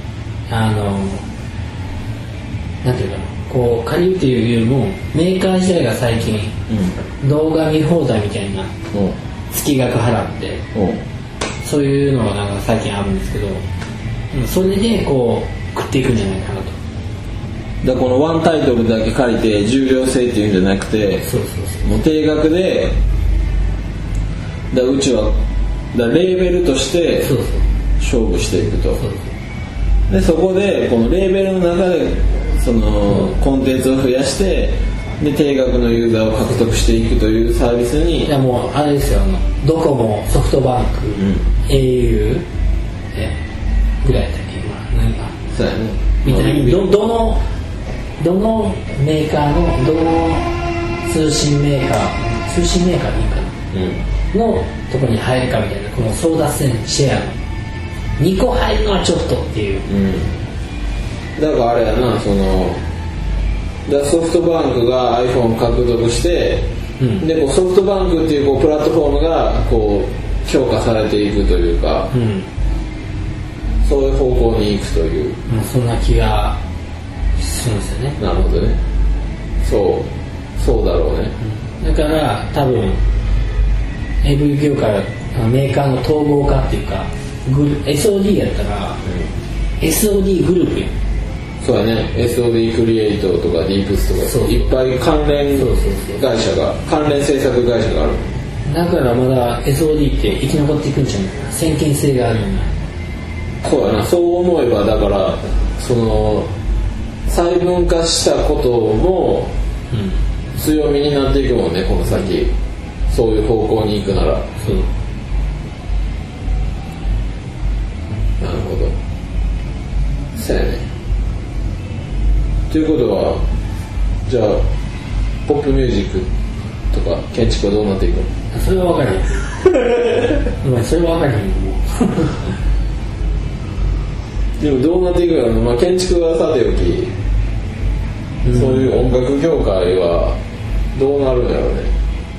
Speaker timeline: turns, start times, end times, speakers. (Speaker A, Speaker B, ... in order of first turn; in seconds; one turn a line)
Speaker A: 0.5-1.2
Speaker A: 2.8-6.5
Speaker B: 6.7-6.9
Speaker A: 7.2-8.7
Speaker A: 9.5-10.6
Speaker B: 10.7-11.0
Speaker A: 11.6-13.6
Speaker A: 14.3-16.8
Speaker B: 17.8-21.3
Speaker A: 21.2-21.9
Speaker B: 21.8-23.0
Speaker B: 24.7-25.3
Speaker B: 25.9-27.3
Speaker A: 27.2-27.6
Speaker B: 28.0-29.0
Speaker A: 29.0-29.3
Speaker B: 30.1-38.3
Speaker A: 38.2-42.5
Speaker B: 41.2-41.4
Speaker A: 44.0-45.4
Speaker B: 45.5-47.0
Speaker A: 46.2-47.4
Speaker A: 48.2-50.5
Speaker A: 51.0-53.5
Speaker B: 53.7-54.0
Speaker A: 54.3-57.4
Speaker A: 58.2-59.9
Speaker B: 59.9-60.3
Speaker B: 61.4-62.8
Speaker B: 63.9-66.7
Speaker A: 67.0-67.2
Speaker B: 67.2-72.1
Speaker A: 72.1-72.5
Speaker B: 73.8-75.4
Speaker A: 75.5-76.6
Speaker A: 77.4-78.2
Speaker B: 78.2-78.8
Speaker B: 79.6-81.3
Speaker A: 81.4-83.0
Speaker A: 84.2-89.0
Speaker B: 89.0-89.3
Speaker A: 89.8-90.9
Speaker B: 91.6-98.4
Speaker A: 94.3-94.7
Speaker A: 95.5-96.2
Speaker A: 98.7-102.7
Speaker B: 103.6-106.5
Speaker B: 107.3-109.5
Speaker A: 109.9-110.2
Speaker B: 110.5-112.5
Speaker B: 113.1-114.5
Speaker A: 114.6-114.9
Speaker B: 118.4-119.0
Speaker B: 120.3-120.9
Speaker B: 122.7-123.4
Speaker B: 124.2-124.6
Speaker B: 125.5-126.3
Speaker B: 126.9-128.3
Speaker A: 128.5-129.5
Speaker A: 130.6-132.4
Speaker B: 134.6-137.1
Speaker A: 138.4-138.8
Speaker B: 138.5-140.4
Speaker B: 140.9-141.9